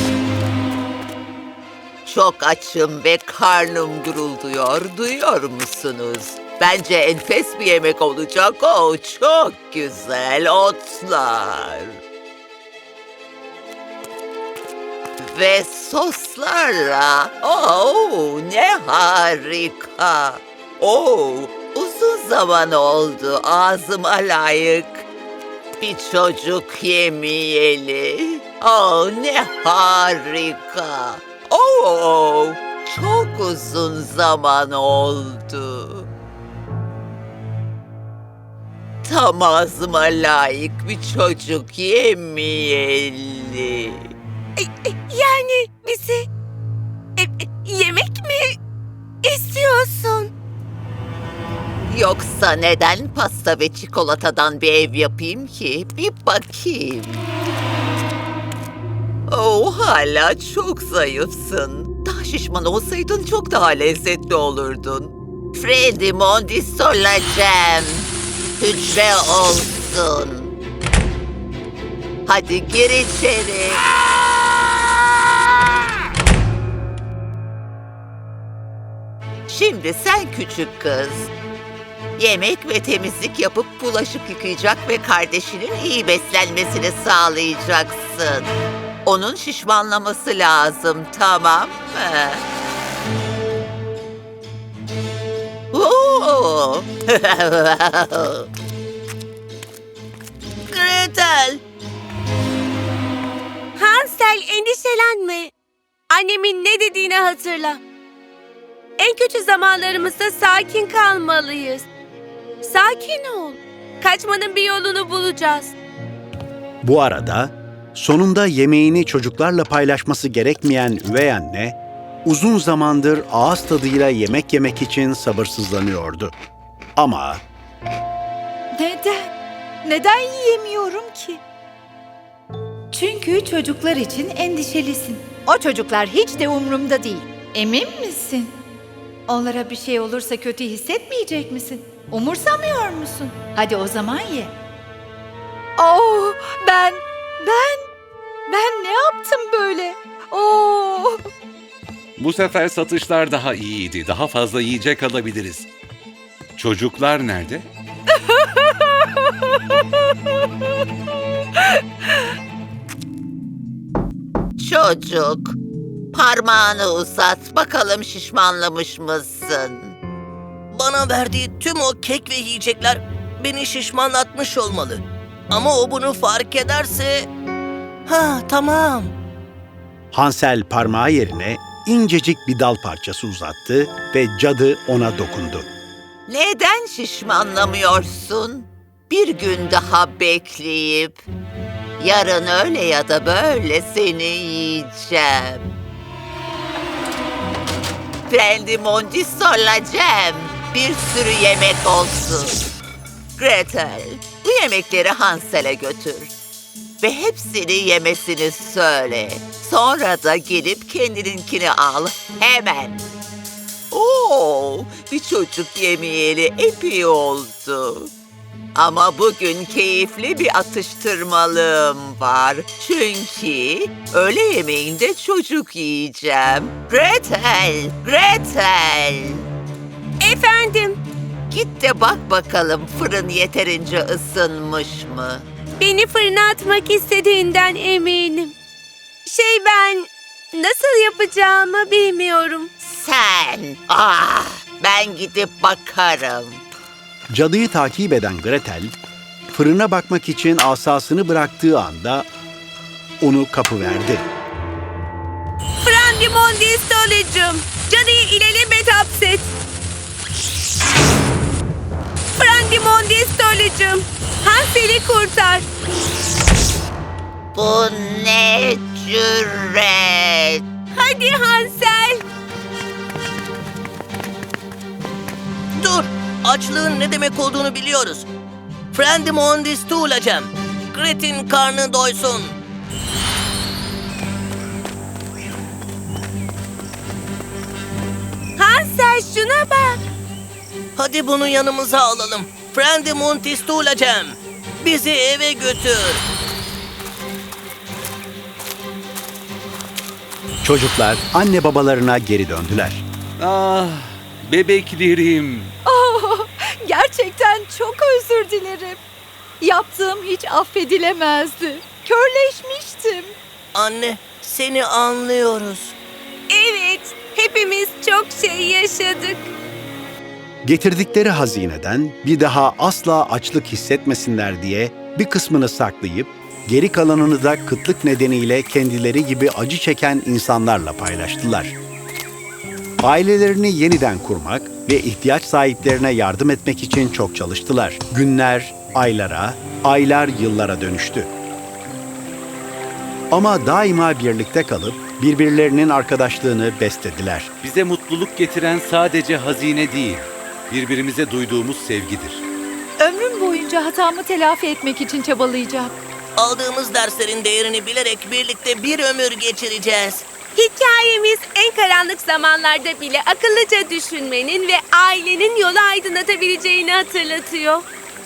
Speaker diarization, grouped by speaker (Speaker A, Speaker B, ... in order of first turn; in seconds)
Speaker A: 2.1-12.0, 15.2-25.1, 25.8-36.1, 39.0-44.1, 51.9-57.3, 59.3-70.5, 72.3-73.8, 79.5-81.3, 82.2-88.5, 89.0-92.4, 95.7-98.5, 164.6-165.6, 166.1-170.0, 186.3-191.2, 192.0-195.7, 198.3-202.7, 203.4-206.3, 207.0-213.1, 213.9-218.1, 218.8-229.5, 231.5-235.4, 242.8-246.6, 267.6-270.6
Speaker B: 44.6-46.3, 47.2-48.6, 49.2-50.3, 103.8-105.5, 106.1-107.8, 109.0-111.9, 112.6-115.7, 230.2-231.0, 235.8-238.6, 239.3-242.7, 255.8-259.4, 262.4-265.7, 271.0-272.2, 288.6-290.0, 316.5-319.5, 360.6-367.9
Speaker C: 100.7-101.6, 170.7-177.3, 178.1-179.1, 275.8-278.3, 278.9-282.6, 291.0-296.2, 313.8-316.0, 356.4-360.3
Speaker D: 116.8-126.3, 127.0-127.4, 180.1-185.7, 247.3-248.9, 249.5-252.3, 253.2-254.3, 300.6-303.1, 320.6-331.8, 333.0-341.3, 343.3-347.5
Speaker E: 128.7-131.4, 132.9-138.6, 139.3-144.5, 145.8-147.9, 148.5-151.2, 158.2-159.3, 305.9-309.0, 309.6-313.4, 353.0-356.0
Speaker F: 152.2-155.7, 156.6-157.7, 303.4-305.7, 347.6-352.4